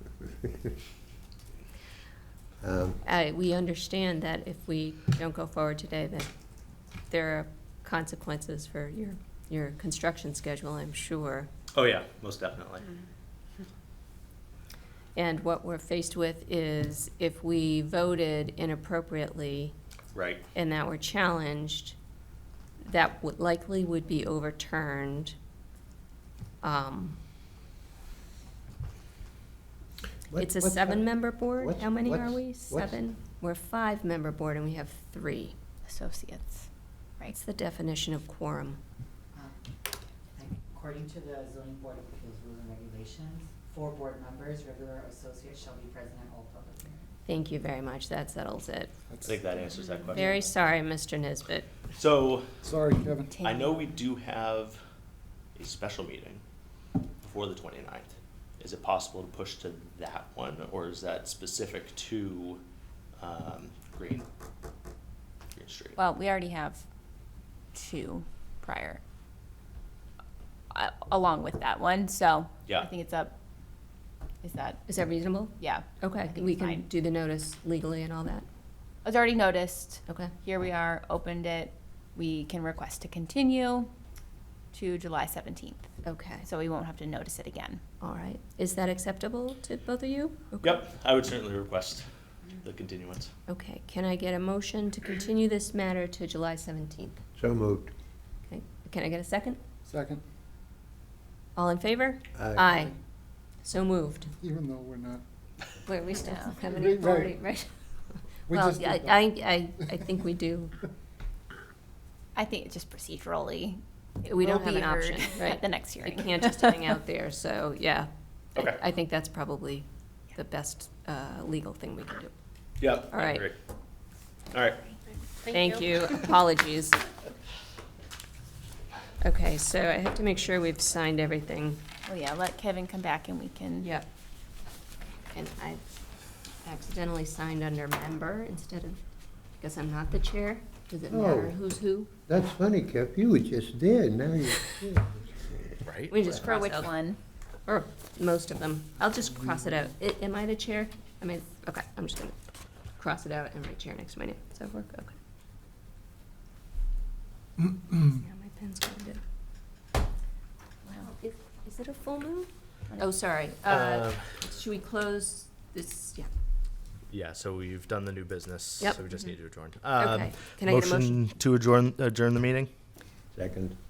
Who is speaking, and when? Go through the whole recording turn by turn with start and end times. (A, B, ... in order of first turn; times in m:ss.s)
0:00.2-0:00.7 A
0:02.6-0:03.0 A
0:03.0-0:06.3 B
0:07.1-0:11.5 B
0:11.7-0:12.9 C
0:15.2-0:19.7 B
0:20.1-0:20.4 C
0:20.5-0:22.0 B
0:22.8-0:25.4 B
0:26.6-0:27.2 B
0:30.3-0:33.0 A
0:30.4-0:35.6 B
0:35.8-0:36.7 D
0:37.3-0:38.8 B
0:40.4-0:47.0 E
0:47.2-0:48.9 B
0:49.1-0:50.4 F
0:49.2-0:50.4 C
0:50.1-0:51.7 B
0:51.9-0:52.6 C
0:52.6-0:53.4 F
0:53.3-0:53.8 D
0:53.4-0:54.8 C
0:55.6-0:56.4 C
0:57.2-1:02.6 C
1:03.2-1:04.2 C
1:05.6-1:06.0 C
1:06.0-1:06.8 D
1:07.7-1:09.0 D
1:10.7-1:13.3 D
1:14.4-1:14.9 D
1:14.9-1:18.4 B
1:15.6-1:16.8 D
1:19.0-1:23.9 D
1:20.1-1:20.3 B
1:24.7-1:27.8 D
1:26.0-1:26.4 B
1:28.0-1:30.8 B
1:30.6-1:32.0 C
1:32.6-1:33.3 C
1:33.5-1:37.2 B
1:37.4-1:37.9 A
1:38.5-1:39.6 B
1:39.9-1:40.2 F
1:41.6-1:43.0 B
1:42.4-1:42.7 A
1:43.6-1:44.3 B
1:44.4-1:45.2 F
1:45.8-1:47.7 B
1:46.2-1:46.6 D
1:46.7-1:47.4 F
1:48.5-1:50.8 B
1:48.5-1:49.3 F
1:52.3-1:57.0 D
1:54.2-2:02.3 B
2:02.8-2:03.6 C
2:03.1-2:03.5 B
2:04.5-2:04.9 C
2:05.5-2:07.0 B
2:09.2-2:11.8 B
2:12.1-2:13.9 D
2:13.8-2:14.1 B
2:15.3-2:15.8 B
2:16.6-2:19.0 B
2:19.6-2:22.1 B
2:21.1-2:21.6 A
2:22.3-2:25.8 A
2:25.8-2:26.2 C
2:26.1-2:26.9 B
2:26.3-2:27.2 D
2:27.6-2:32.3 B
2:33.0-2:35.2 B
2:37.9-2:39.2 B
2:41.0-2:46.3 B
2:43.6-2:44.3 C
2:47.1-2:52.7 C
2:50.0-2:51.2 B
2:53.3-2:53.8 A